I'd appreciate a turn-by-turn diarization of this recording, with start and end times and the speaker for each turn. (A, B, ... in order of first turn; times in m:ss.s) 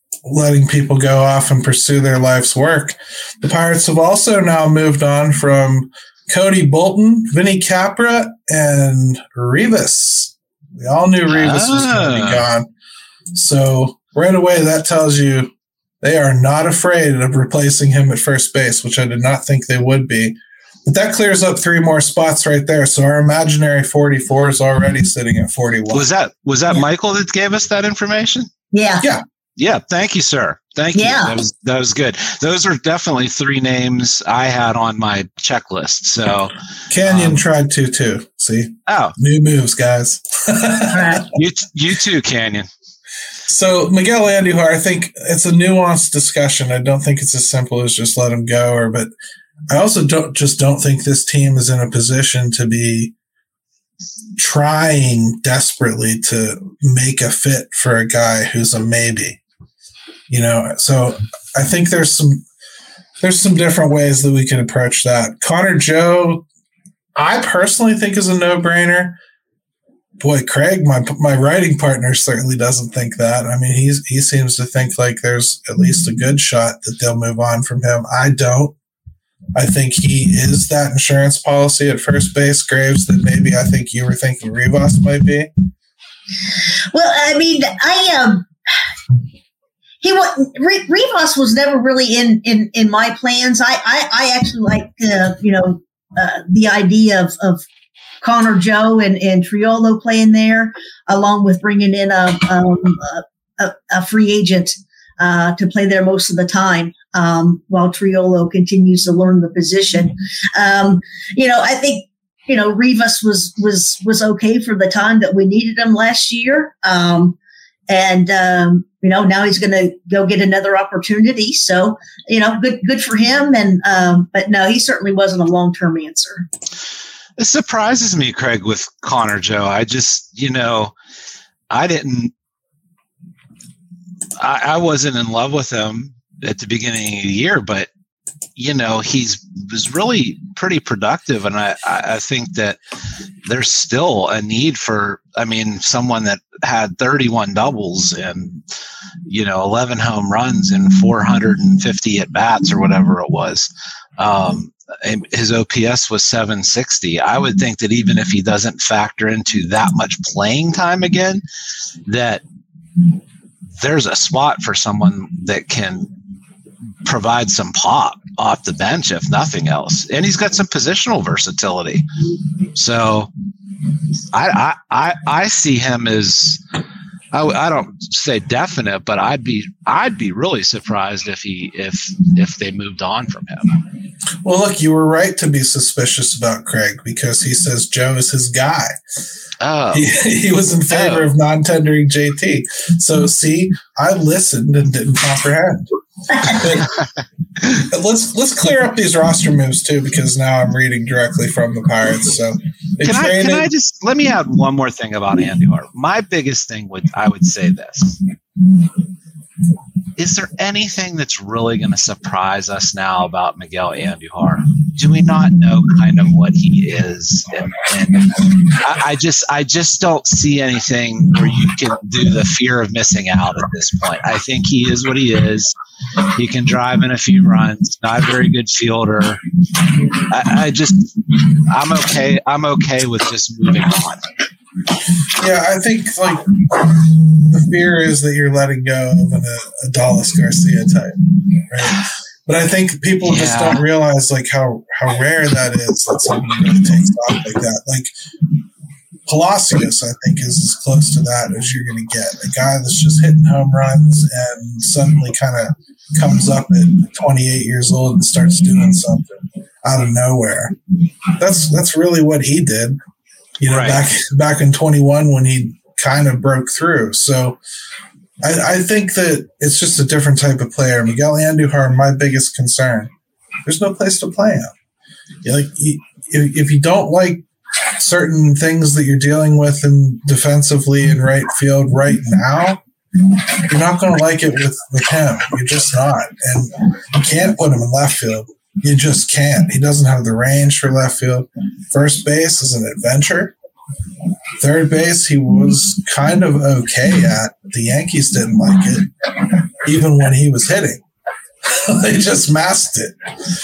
0:00.2-0:12.7 A
0:11.3-0:12.4 B
0:13.3-0:26.1 A
0:25.9-0:28.5 B
0:28.7-0:29.0 C
0:29.6-0:36.5 B
0:30.9-0:31.3 C
0:36.9-0:41.3 A
0:37.0-0:37.4 B
0:38.9-0:39.1 B
0:40.9-0:41.2 C
0:41.3-0:42.7 B
0:43.5-0:49.1 A
0:49.7-0:53.1 A
0:54.4-0:59.4 A
1:00.3-1:02.4 A
1:03.2-1:06.4 A
1:07.2-1:09.2 A
1:10.2-1:18.8 A
1:19.5-1:25.5 A
1:26.9-1:28.4 C
1:30.0-1:37.6 C
1:38.2-1:57.4 C
1:57.9-2:06.4 C
2:07.4-2:10.9 B
2:11.7-2:12.3 B
2:14.4-2:17.9 B
2:18.6-2:22.8 B
2:23.4-2:28.6 B
2:29.3-2:41.4 B
2:42.1-2:42.4 B
2:43.8-2:46.1 B
2:47.0-2:52.0 B
2:52.7-2:53.3 B
2:54.3-2:56.6 B
2:57.3-3:03.8 B
3:04.4-3:09.0 A
3:09.6-3:10.1 B
3:09.9-3:15.9 A
3:10.9-3:11.3 B
3:16.3-3:16.6 C
3:16.4-3:16.9 A
3:17.8-3:23.7 A
3:23.0-3:28.2 B
3:30.2-3:45.7 B
3:46.3-3:49.4 B
3:50.1-3:54.3 B
3:55.3-4:08.1 A
4:03.2-4:03.8 B
4:09.3-4:20.7 A
4:21.4-4:23.0 A
4:23.6-4:27.6 A
4:23.6-4:24.0 B
4:28.4-4:33.1 A
4:33.6-4:34.7 A
4:35.4-4:37.4 A
4:38.0-4:42.8 A
4:43.6-4:53.5 A
4:54.6-5:01.0 A
5:01.6-5:03.2 A